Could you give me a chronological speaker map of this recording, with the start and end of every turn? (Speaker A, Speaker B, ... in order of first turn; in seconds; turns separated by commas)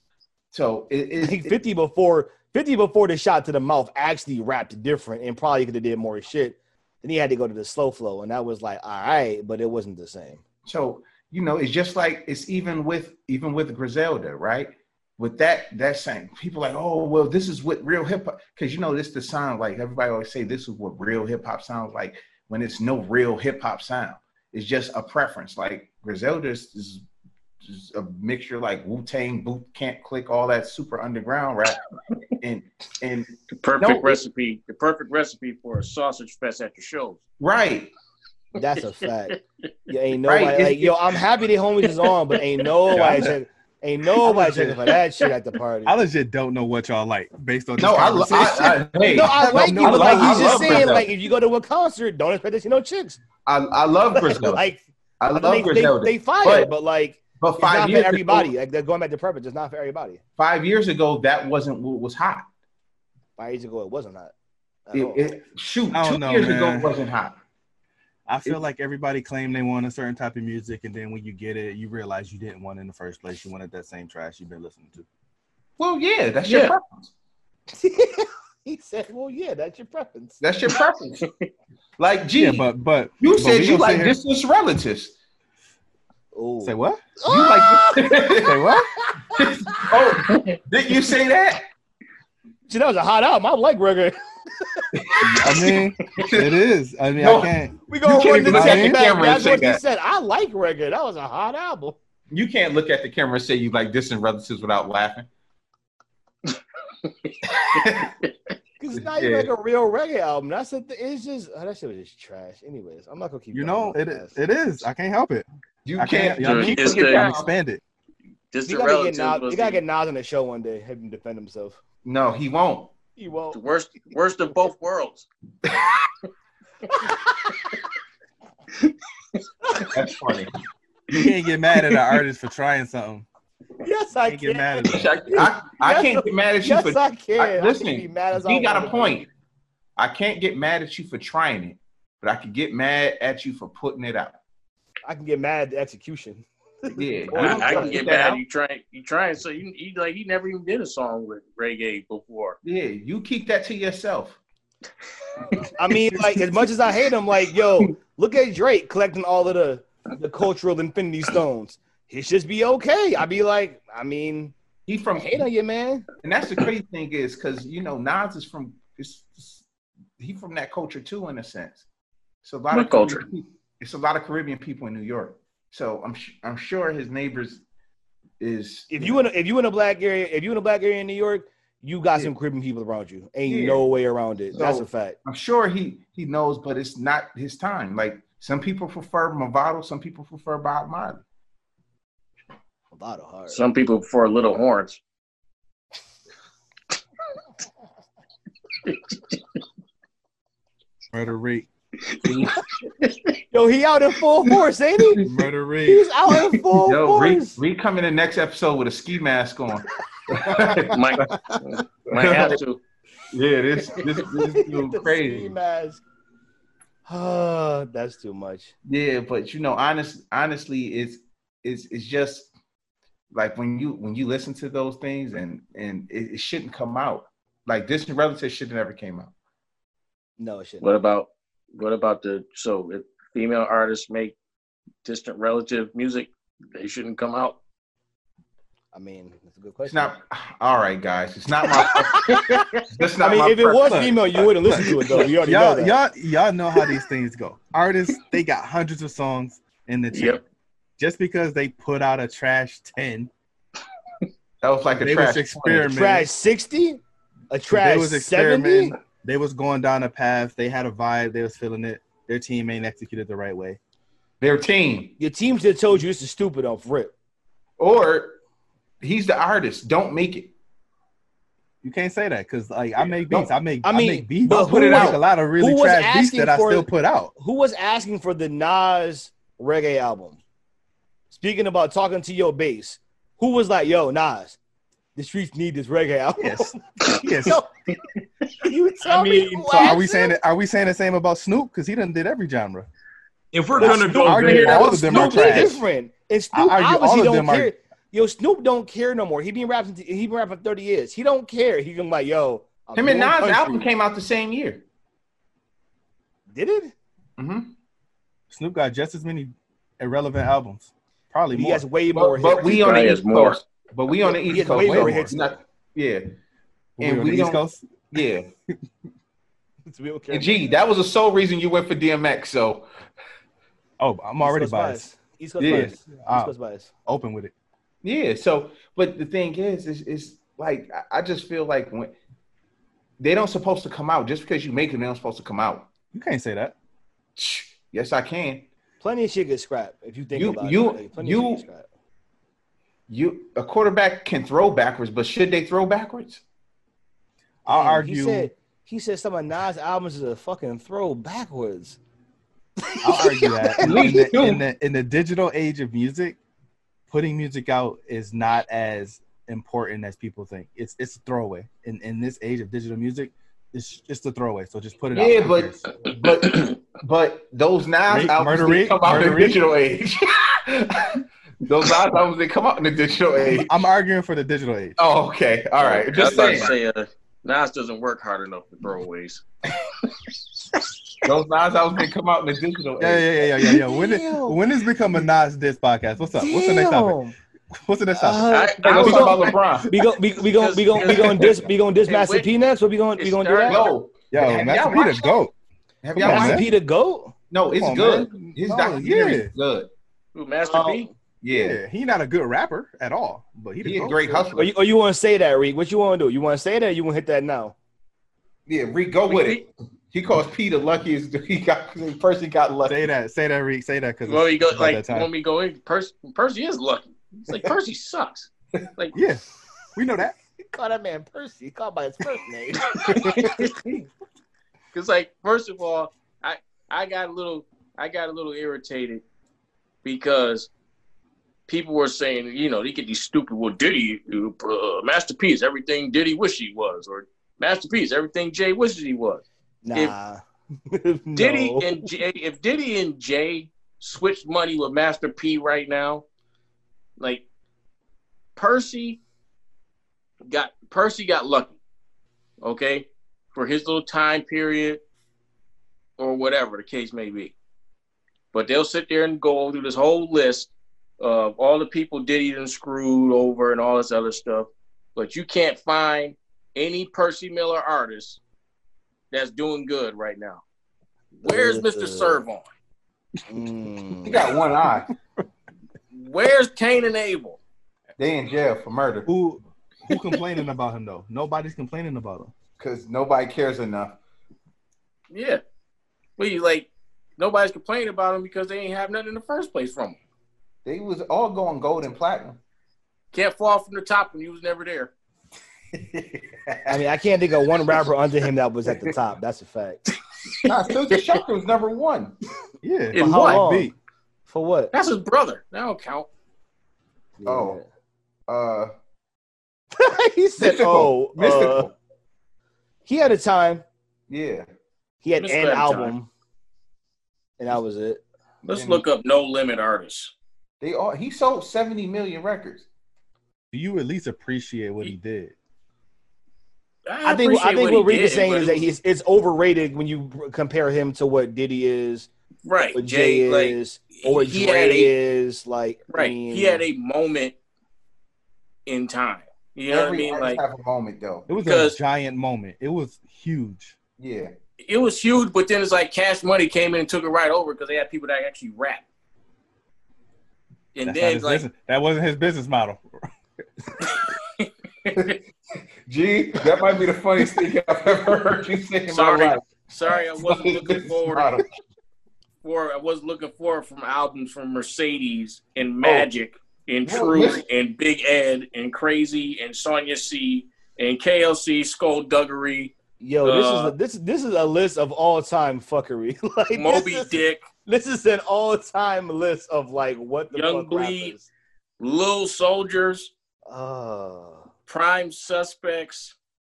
Speaker A: 0.5-1.6, Speaker B: 1.2-10.4, Speaker A: 10.7-27.0, Speaker A: 27.6-31.8, Speaker A: 32.4-34.2, Speaker C: 33.6-37.2, Speaker A: 37.4-37.9, Speaker B: 38.5-45.9, Speaker C: 38.9-39.4, Speaker A: 40.2-41.1, Speaker D: 42.9-43.4, Speaker D: 44.2-44.8, Speaker D: 45.9-51.0, Speaker A: 47.8-51.0, Speaker B: 49.1-53.2, Speaker A: 53.5-54.6, Speaker B: 54.1-54.8, Speaker A: 55.2-56.7, Speaker B: 55.3-60.2, Speaker A: 57.4-58.5, Speaker A: 60.4-62.5, Speaker B: 63.4-64.3, Speaker B: 64.9-65.3, Speaker A: 64.9-67.4, Speaker D: 65.9-66.9, Speaker D: 68.3-75.0, Speaker A: 75.8-77.1, Speaker C: 76.5-76.8, Speaker B: 77.7-80.4, Speaker A: 80.4-81.3, Speaker A: 82.0-85.1, Speaker D: 82.4-84.2, Speaker B: 86.3-89.8, Speaker D: 86.6-87.0, Speaker A: 87.2-88.6, Speaker D: 88.4-88.9, Speaker A: 89.3-91.6, Speaker C: 90.3-90.6, Speaker B: 92.7-95.2, Speaker A: 94.9-96.6, Speaker D: 95.2-97.8, Speaker A: 97.2-99.8, Speaker B: 97.9-102.0, Speaker D: 98.5-99.0, Speaker A: 102.3-105.3, Speaker C: 107.0-108.3, Speaker A: 107.5-108.1, Speaker B: 108.8-114.4, Speaker A: 109.0-109.5, Speaker D: 113.5-115.4, Speaker A: 115.8-117.5, Speaker D: 116.0-117.8, Speaker C: 116.4-117.3, Speaker C: 118.5-119.8, Speaker B: 118.6-121.8, Speaker A: 122.0-122.9, Speaker B: 123.2-123.6, Speaker C: 123.5-125.3, Speaker B: 126.9-127.5, Speaker A: 129.9-130.5, Speaker D: 131.1-133.3, Speaker B: 133.8-139.2, Speaker D: 134.3-135.1, Speaker A: 134.9-139.3, Speaker A: 140.0-144.4, Speaker B: 145.1-148.0, Speaker A: 146.9-148.4, Speaker C: 147.3-152.6, Speaker A: 152.6-154.4, Speaker B: 155.8-164.5, Speaker A: 164.9-165.4, Speaker B: 165.2-166.1, Speaker A: 166.2-169.6, Speaker A: 170.2-171.8, Speaker A: 172.4-177.6, Speaker C: 172.7-173.2, Speaker A: 178.4-179.3, Speaker B: 178.9-185.2, Speaker A: 183.4-183.8, Speaker A: 184.5-191.2, Speaker B: 192.9-193.6, Speaker C: 193.5-195.0, Speaker C: 198.8-199.3, Speaker D: 201.1-201.7, Speaker C: 202.1-202.3, Speaker C: 202.9-203.3, Speaker B: 203.5-205.2, Speaker D: 205.2-206.1, Speaker B: 205.8-207.6, Speaker A: 206.7-211.5, Speaker C: 210.8-212.8, Speaker A: 212.1-212.6, Speaker A: 213.3-215.6, Speaker B: 214.0-216.0, Speaker B: 217.1-218.7, Speaker A: 218.8-222.5, Speaker A: 223.3-229.3, Speaker B: 230.4-230.9, Speaker C: 230.8-234.3, Speaker C: 235.0-237.6, Speaker B: 238.9-240.1, Speaker A: 239.8-244.5, Speaker C: 242.1-242.8, Speaker B: 242.1-242.6, Speaker B: 243.2-246.0, Speaker D: 243.8-250.4, Speaker C: 250.1-250.4, Speaker D: 251.0-253.3, Speaker A: 254.6-255.9, Speaker D: 255.0-256.3, Speaker B: 255.8-258.9, Speaker D: 257.7-263.8, Speaker A: 264.4-265.1, Speaker B: 265.2-267.1, Speaker A: 267.8-268.4, Speaker A: 269.0-270.5, Speaker D: 271.8-277.3, Speaker A: 273.0-273.5, Speaker B: 273.8-280.4, Speaker A: 274.4-275.2, Speaker B: 281.3-284.6, Speaker B: 285.1-287.7, Speaker D: 286.4-287.6, Speaker B: 288.6-290.4, Speaker D: 289.1-292.9, Speaker E: 293.5-295.6, Speaker D: 293.8-295.8, Speaker B: 293.8-303.9, Speaker C: 294.0-295.5, Speaker D: 296.5-297.7, Speaker A: 302.9-304.8, Speaker B: 306.5-306.9, Speaker A: 307.4-307.7, Speaker D: 308.5-311.8, Speaker B: 311.5-313.1, Speaker A: 312.1-316.2, Speaker C: 312.5-313.6, Speaker B: 314.2-315.6, Speaker D: 314.8-315.1, Speaker D: 317.0-318.0, Speaker A: 317.0-318.5, Speaker B: 319.9-320.6, Speaker A: 320.3-322.9, Speaker D: 324.0-325.1, Speaker B: 324.4-326.9, Speaker A: 325.6-325.9, Speaker D: 325.6-326.5, Speaker D: 327.1-327.5, Speaker A: 328.0-332.1, Speaker A: 333.2-335.9, Speaker D: 336.1-336.7, Speaker A: 337.4-338.7, Speaker B: 339.0-341.9, Speaker A: 340.3-341.6, Speaker A: 343.1-346.4, Speaker D: 347.6-348.5, Speaker B: 347.7-352.0, Speaker B: 352.8-354.3, Speaker D: 353.0-356.4, Speaker A: 353.8-354.6, Speaker D: 357.1-365.9, Speaker A: 365.1-373.7, Speaker C: 366.4-366.7, Speaker D: 368.1-369.6, Speaker D: 373.4-375.0, Speaker A: 375.0-376.7, Speaker C: 375.8-379.4, Speaker A: 381.2-384.5, Speaker D: 383.0-387.2, Speaker B: 386.3-387.3, Speaker D: 387.9-388.5, Speaker B: 388.1-393.9, Speaker C: 388.5-389.8, Speaker A: 388.8-389.9, Speaker C: 390.5-392.5, Speaker A: 391.2-391.6, Speaker C: 393.1-393.9, Speaker A: 393.7-395.4, Speaker D: 394.3-395.5, Speaker A: 396.0-396.7, Speaker D: 396.1-396.7, Speaker B: 396.1-397.3, Speaker A: 397.5-399.9, Speaker D: 397.7-399.5, Speaker C: 400.3-401.1, Speaker B: 400.7-401.1, Speaker A: 401.4-401.8, Speaker D: 401.5-404.5, Speaker A: 403.8-404.7, Speaker B: 404.5-407.7, Speaker A: 408.7-413.0, Speaker C: 409.3-409.6, Speaker D: 412.9-415.3, Speaker C: 414.2-419.1, Speaker D: 419.1-419.4, Speaker D: 419.9-420.4, Speaker B: 420.7-423.5, Speaker D: 423.1-423.4, Speaker C: 423.2-423.7, Speaker C: 424.9-429.2, Speaker C: 430.0-430.7, Speaker C: 431.7-440.1, Speaker B: 439.8-442.1, Speaker C: 441.4-446.2, Speaker C: 447.2-447.4, Speaker C: 448.6-449.2, Speaker C: 450.4-451.8, Speaker C: 452.6-455.0, Speaker C: 456.2-457.5, Speaker C: 458.5-468.4, Speaker C: 469.3-470.6, Speaker B: 471.4-472.4, Speaker C: 471.4-472.7, Speaker B: 473.4-474.5, Speaker A: 474.2-475.1, Speaker C: 476.1-477.6, Speaker A: 478.2-479.3, Speaker D: 479.3-482.5, Speaker A: 482.8-484.2, Speaker C: 485.3-485.6, Speaker C: 486.4-490.2, Speaker A: 490.8-492.6, Speaker C: 493.3-495.1, Speaker A: 496.0-497.0, Speaker B: 496.9-500.0, Speaker C: 500.4-501.4, Speaker A: 500.6-502.4, Speaker D: 502.8-503.9, Speaker C: 503.1-503.6, Speaker B: 503.1-503.9, Speaker B: 504.5-504.9, Speaker C: 504.9-506.3, Speaker B: 507.4-507.8, Speaker A: 507.4-507.8, Speaker A: 508.5-508.9, Speaker B: 509.9-511.9, Speaker A: 510.6-511.9, Speaker B: 513.0-513.8, Speaker A: 514.3-514.7, Speaker B: 515.2-516.3, Speaker C: 515.4-516.1, Speaker B: 517.6-518.2, Speaker C: 518.6-520.3, Speaker A: 518.7-519.0, Speaker A: 520.8-522.9, Speaker D: 523.7-525.5, Speaker C: 527.1-528.9, Speaker B: 527.2-532.3, Speaker C: 532.6-535.1, Speaker B: 532.9-536.8, Speaker C: 536.1-537.5, Speaker C: 538.9-540.6, Speaker A: 539.9-541.5, Speaker D: 541.5-543.9, Speaker C: 541.6-542.0, Speaker A: 544.2-544.5, Speaker C: 544.8-549.0, Speaker C: 550.9-551.7, Speaker D: 551.0-553.0, Speaker C: 554.6-555.4, Speaker A: 556.1-561.6, Speaker C: 559.1-561.6, Speaker C: 562.6-573.9, Speaker A: 566.0-566.3, Speaker A: 567.0-567.6, Speaker B: 573.2-581.5, Speaker C: 576.7-577.6, Speaker C: 580.5-581.3, Speaker C: 582.0-583.3, Speaker B: 583.7-584.7, Speaker C: 584.9-586.3